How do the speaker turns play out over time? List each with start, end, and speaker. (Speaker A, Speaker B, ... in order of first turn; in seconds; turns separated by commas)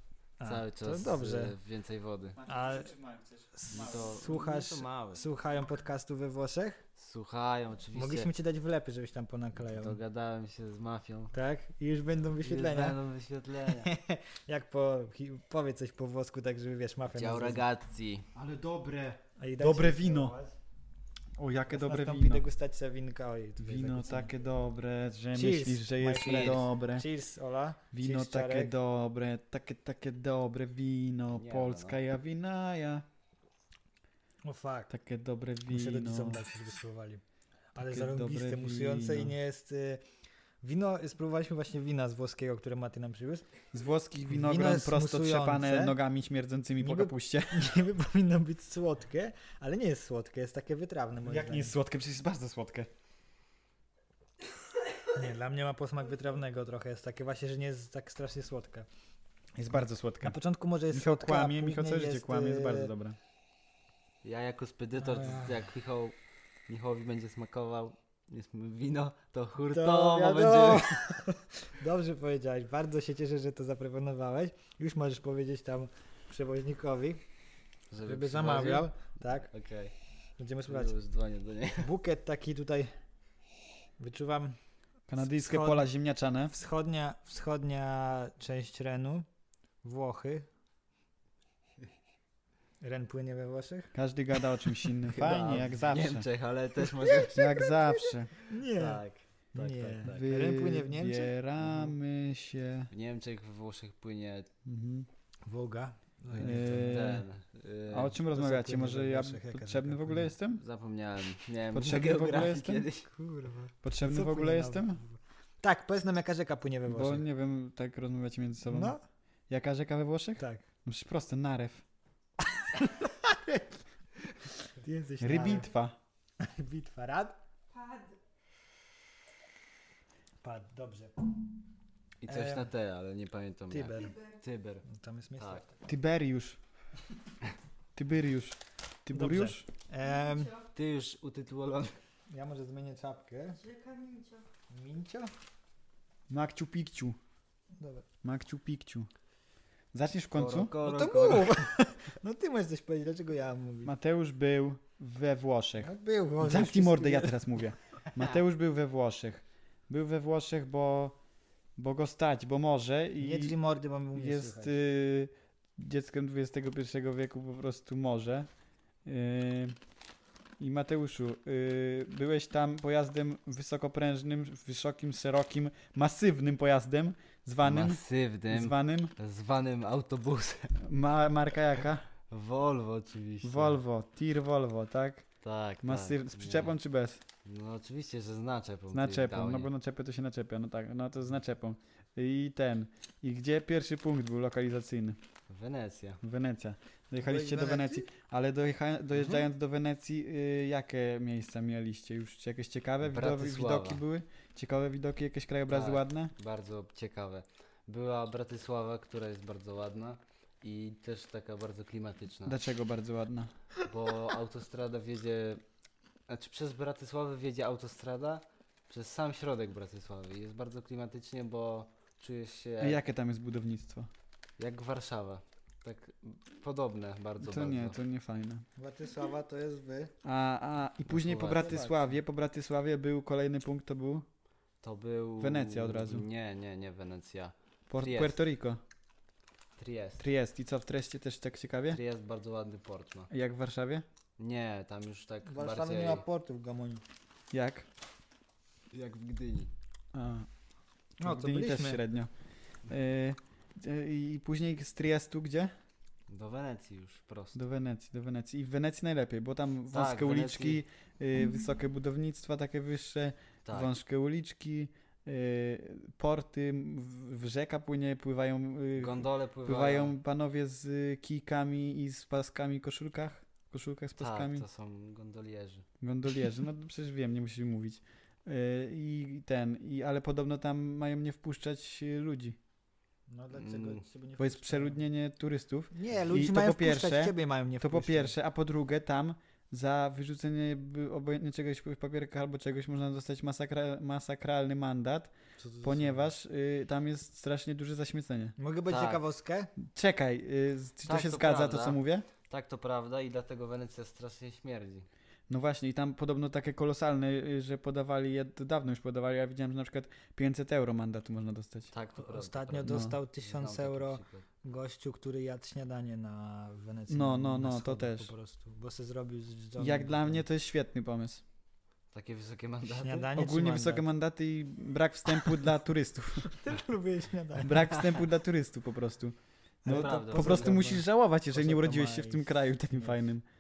Speaker A: 0.4-1.6, Speaker B: 0.4-2.4, Speaker C: 2.4-4.0, Speaker A: 2.5-2.9, Speaker A: 3.5-6.8, Speaker B: 3.7-5.2, Speaker B: 7.0-8.3, Speaker A: 7.9-10.0, Speaker B: 9.7-11.3, Speaker A: 11.3-13.0, Speaker B: 12.4-13.9, Speaker A: 13.7-17.6, Speaker B: 17.1-18.3, Speaker C: 18.3-20.4, Speaker A: 19.4-20.6, Speaker C: 21.4-22.4, Speaker A: 21.7-24.3, Speaker C: 23.6-27.1, Speaker A: 25.3-28.7, Speaker B: 26.1-26.7, Speaker C: 27.9-33.1, Speaker B: 31.3-32.0, Speaker A: 34.4-34.9, Speaker C: 34.9-36.4, Speaker A: 35.7-37.2, Speaker A: 37.8-40.0, Speaker C: 37.8-39.3, Speaker A: 40.6-43.5, Speaker C: 43.7-47.8, Speaker A: 44.3-46.0, Speaker A: 46.8-51.8, Speaker C: 51.2-52.9, Speaker A: 55.1-58.9, Speaker C: 59.6-60.4, Speaker A: 60.2-62.9, Speaker C: 60.9-63.2, Speaker B: 64.2-66.2, Speaker A: 65.0-65.6, Speaker B: 66.7-71.1, Speaker A: 69.6-77.2, Speaker B: 77.9-78.9, Speaker A: 78.1-79.5, Speaker B: 79.5-80.0, Speaker A: 80.4-81.0, Speaker B: 80.7-81.9, Speaker A: 81.8-82.9, Speaker A: 84.0-84.6, Speaker C: 85.1-86.5, Speaker A: 85.2-85.9, Speaker A: 86.5-89.3, Speaker A: 89.8-90.5, Speaker A: 92.8-93.9, Speaker C: 93.9-96.3, Speaker A: 94.7-95.2, Speaker B: 95.1-97.7, Speaker A: 96.8-99.0, Speaker C: 97.3-98.3, Speaker B: 98.5-100.3, Speaker A: 99.5-101.3, Speaker C: 100.0-102.9, Speaker B: 101.6-101.9, Speaker B: 102.9-104.5, Speaker C: 104.7-105.1, Speaker A: 105.5-106.9, Speaker C: 106.4-107.3, Speaker B: 106.4-108.2, Speaker C: 107.9-110.6, Speaker A: 108.3-110.3, Speaker B: 110.5-113.1, Speaker C: 111.7-112.9, Speaker A: 113.0-117.2, Speaker C: 113.8-115.0, Speaker C: 116.9-119.0, Speaker A: 118.7-119.0, Speaker C: 119.5-121.8, Speaker A: 120.4-120.6, Speaker A: 122.7-123.7, Speaker A: 124.7-125.7, Speaker C: 125.2-126.0, Speaker A: 126.4-127.4, Speaker A: 130.4-131.2, Speaker B: 132.2-134.8, Speaker A: 132.3-132.7, Speaker A: 133.7-134.2, Speaker A: 134.9-135.7, Speaker C: 135.9-136.6, Speaker C: 137.9-139.7, Speaker A: 139.1-140.6, Speaker B: 140.7-141.9, Speaker A: 142.3-143.8, Speaker A: 144.7-145.3, Speaker C: 146.3-147.2, Speaker A: 147.7-148.1, Speaker C: 148.2-149.1, Speaker C: 149.9-150.8, Speaker B: 150.3-151.6, Speaker A: 150.8-153.9, Speaker C: 153.8-161.2, Speaker A: 155.8-157.6, Speaker C: 161.8-163.6, Speaker A: 163.2-164.8, Speaker C: 164.1-168.5, Speaker C: 169.1-169.8, Speaker C: 170.6-179.1, Speaker B: 177.6-180.8, Speaker C: 180.8-182.0, Speaker B: 182.3-183.8, Speaker C: 183.4-185.3, Speaker B: 185.4-186.8, Speaker C: 185.8-187.2, Speaker B: 187.4-189.7, Speaker C: 188.9-195.2, Speaker B: 195.5-196.2, Speaker C: 196.2-206.3, Speaker A: 197.2-198.1, Speaker B: 199.2-199.4, Speaker B: 203.1-204.0, Speaker B: 205.7-212.6, Speaker C: 212.5-213.5, Speaker B: 213.8-215.6, Speaker B: 216.3-223.0, Speaker C: 222.8-224.1, Speaker B: 224.6-228.0, Speaker C: 227.4-228.7, Speaker A: 228.8-230.1, Speaker C: 230.2-234.2, Speaker B: 231.1-231.9, Speaker A: 231.4-232.0, Speaker B: 234.8-238.4, Speaker C: 235.4-236.3, Speaker C: 237.9-238.8, Speaker B: 239.8-240.2, Speaker C: 240.2-242.0, Speaker B: 241.9-243.3, Speaker C: 243.3-244.1, Speaker B: 244.4-246.2, Speaker A: 245.5-247.0, Speaker C: 247.5-247.9, Speaker B: 248.9-249.7, Speaker C: 250.1-250.5, Speaker A: 251.2-252.0, Speaker C: 251.2-252.3, Speaker C: 252.8-255.7, Speaker B: 256.3-257.6, Speaker C: 257.6-274.6, Speaker B: 259.9-260.8, Speaker B: 263.7-263.9, Speaker B: 269.0-270.2, Speaker B: 274.2-275.9, Speaker C: 276.0-282.6, Speaker A: 283.3-285.0, Speaker B: 283.5-284.0, Speaker C: 284.4-298.6, Speaker A: 285.9-288.3, Speaker A: 295.6-295.9, Speaker A: 298.6-299.7, Speaker B: 298.9-299.2, Speaker C: 299.9-302.3, Speaker B: 301.0-305.1, Speaker C: 305.5-311.9, Speaker B: 311.9-314.4, Speaker A: 312.2-320.4, Speaker C: 312.9-313.1, Speaker C: 317.1-318.3, Speaker C: 319.8-321.4, Speaker B: 322.1-323.3, Speaker A: 323.0-324.1, Speaker C: 323.3-326.5, Speaker A: 326.4-328.0, Speaker C: 327.6-333.4, Speaker A: 329.8-333.2, Speaker B: 329.9-331.0